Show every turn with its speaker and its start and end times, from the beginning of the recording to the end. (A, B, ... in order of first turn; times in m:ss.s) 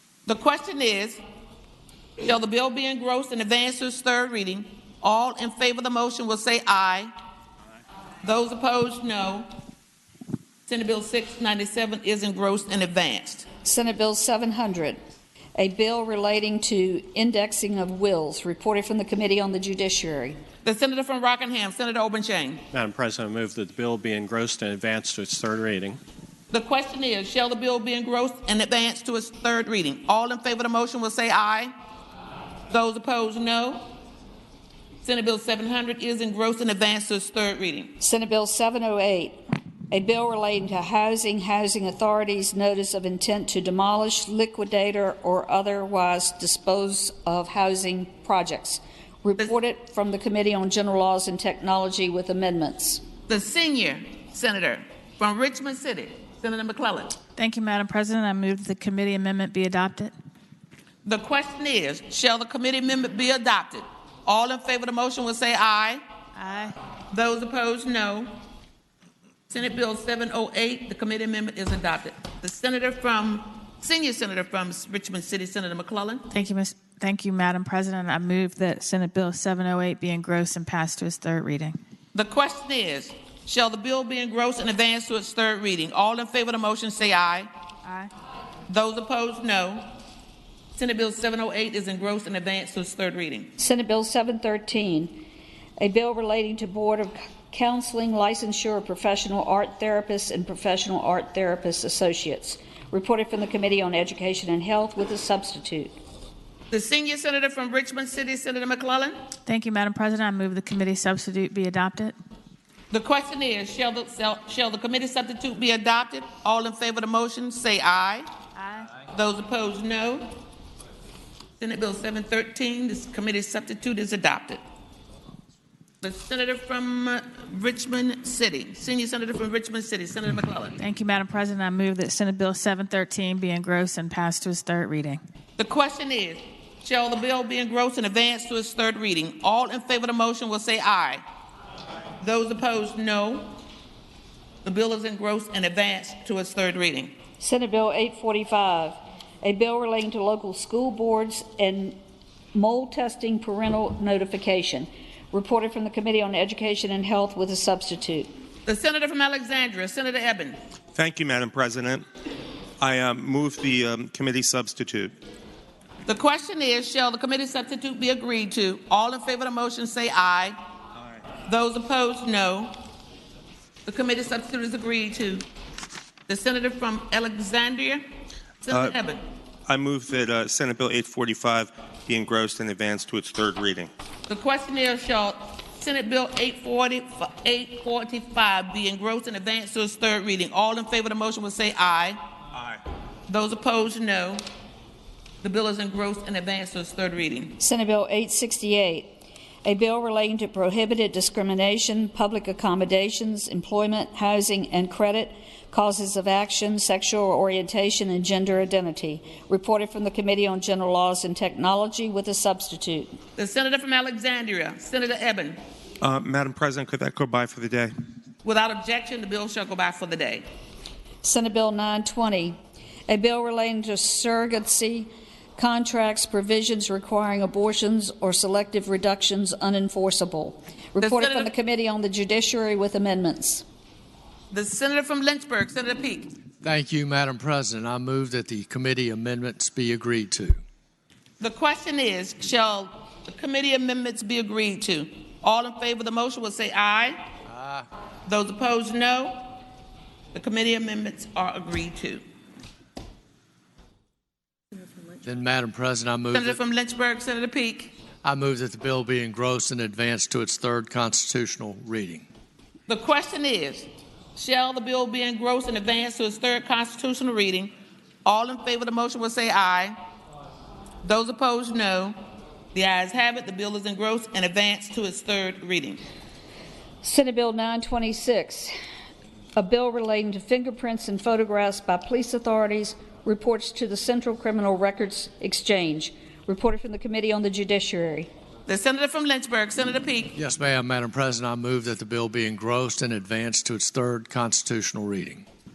0:00.3-0:01.2 A
0:02.2-0:07.1 A
0:08.2-0:09.5 A
0:10.7-0:13.4 A
0:13.6-0:15.0 B
0:15.6-0:20.4 B
0:20.6-0:22.6 A
0:22.7-0:26.0 C
0:26.5-0:31.7 A
0:32.7-0:33.8 A
0:35.0-0:37.9 A
0:38.0-0:39.4 B
0:39.9-0:53.0 B
0:53.3-0:57.2 A
0:57.4-1:00.1 D
1:01.0-1:06.0 A
1:06.4-1:06.7 D
1:07.1-1:08.3 A
1:09.5-1:16.3 A
1:16.3-1:21.8 D
1:22.1-1:27.5 A
1:27.8-1:28.1 D
1:28.7-1:29.9 A
1:30.8-1:33.5 A
1:33.6-1:35.2 B
1:35.8-1:45.9 B
1:46.7-1:49.1 A
1:49.4-1:52.1 D
1:52.9-1:58.2 A
1:58.6-1:58.9 D
1:59.1-2:00.3 A
2:01.6-2:04.6 A
2:06.0-2:10.8 A
2:10.8-2:15.2 D
2:15.6-2:21.2 A
2:22.2-2:23.5 A
2:24.6-2:27.1 A
2:27.4-2:32.0 B
2:32.5-2:38.3 B
2:38.7-2:40.6 A
2:40.9-2:42.0 E
2:42.8-2:45.1 E
2:46.1-2:50.6 A
2:51.5-2:52.8 A
2:53.8-2:55.4 A
2:56.3-2:58.0 A
2:58.6-2:59.2 A
2:58.7-2:58.9 E
2:59.7-3:03.9 E
3:04.3-3:12.2 A
3:13.3-3:14.4 A
3:15.4-3:17.6 A
3:17.6-3:33.2 B
3:33.4-3:35.6 A
3:36.0-3:37.9 E
3:38.4-3:40.4 A
3:41.2-3:42.6 B
3:43.1-3:53.6 B
3:51.0-3:51.5 A
3:54.5-3:56.3 A
3:56.6-4:00.6 F
4:01.4-4:07.2 A
4:07.5-4:07.9 F
4:08.2-4:09.4 A
4:10.3-4:12.2 A
4:15.2-4:16.6 F
4:16.3-4:17.9 A
4:18.2-4:22.2 F
4:22.9-4:27.7 A
4:28.2-4:29.9 A
4:31.0-4:32.1 A
4:32.7-4:36.0 A
4:37.0-4:38.7 B
4:39.6-4:48.3 B
4:48.7-4:50.4 A
4:50.4-4:55.4 F